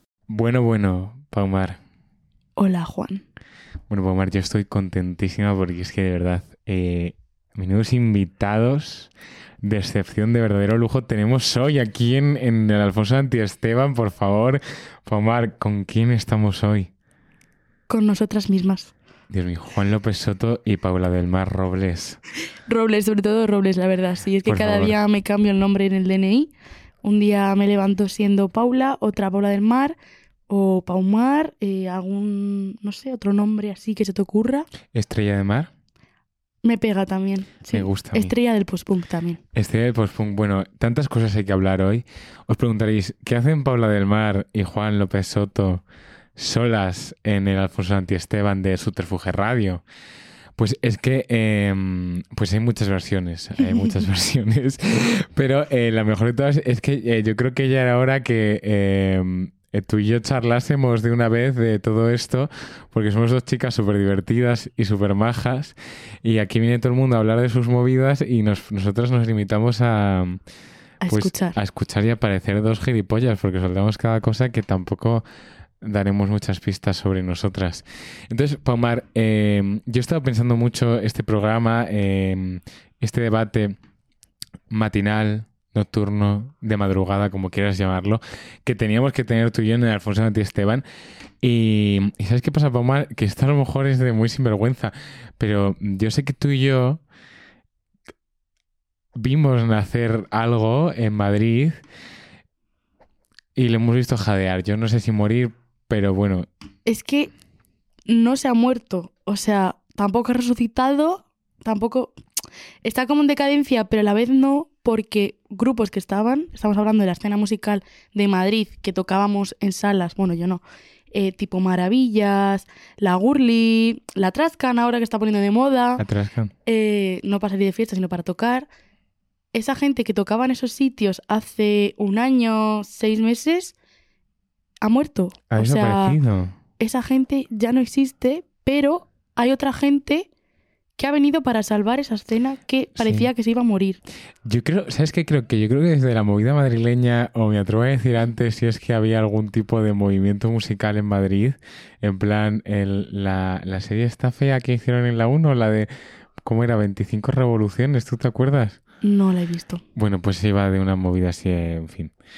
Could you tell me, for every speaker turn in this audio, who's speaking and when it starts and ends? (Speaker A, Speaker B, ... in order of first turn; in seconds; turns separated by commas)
Speaker A: 0.3-1.8, Speaker B: 2.6-3.2, Speaker A: 3.9-9.1, Speaker A: 9.6-16.9, Speaker B: 17.9-18.9, Speaker A: 19.3-22.2, Speaker B: 22.7-26.5, Speaker A: 24.4-25.0, Speaker B: 27.0-29.9, Speaker B: 30.5-34.7, Speaker A: 34.9-35.7, Speaker B: 36.6-39.4, Speaker A: 37.7-38.3, Speaker A: 39.5-45.8, Speaker A: 46.4-49.8, Speaker A: 50.6-70.4, Speaker B: 71.0-71.6, Speaker A: 71.1-75.2, Speaker A: 75.8-83.8, Speaker A: 84.7-90.8, Speaker A: 91.4-97.0, Speaker A: 99.1-101.8, Speaker A: 103.5-106.5, Speaker B: 106.8-107.3, Speaker B: 108.1-112.1, Speaker B: 112.8-126.0, Speaker A: 126.0-126.5, Speaker B: 126.7-128.7, Speaker B: 129.5-133.7, Speaker B: 134.8-136.2, Speaker A: 135.5-136.6, Speaker B: 136.8-140.3, Speaker B: 141.0-144.0, Speaker A: 143.0-143.3, Speaker A: 144.4-155.9, Speaker A: 156.4-158.8, Speaker B: 159.0-159.8, Speaker A: 159.9-162.1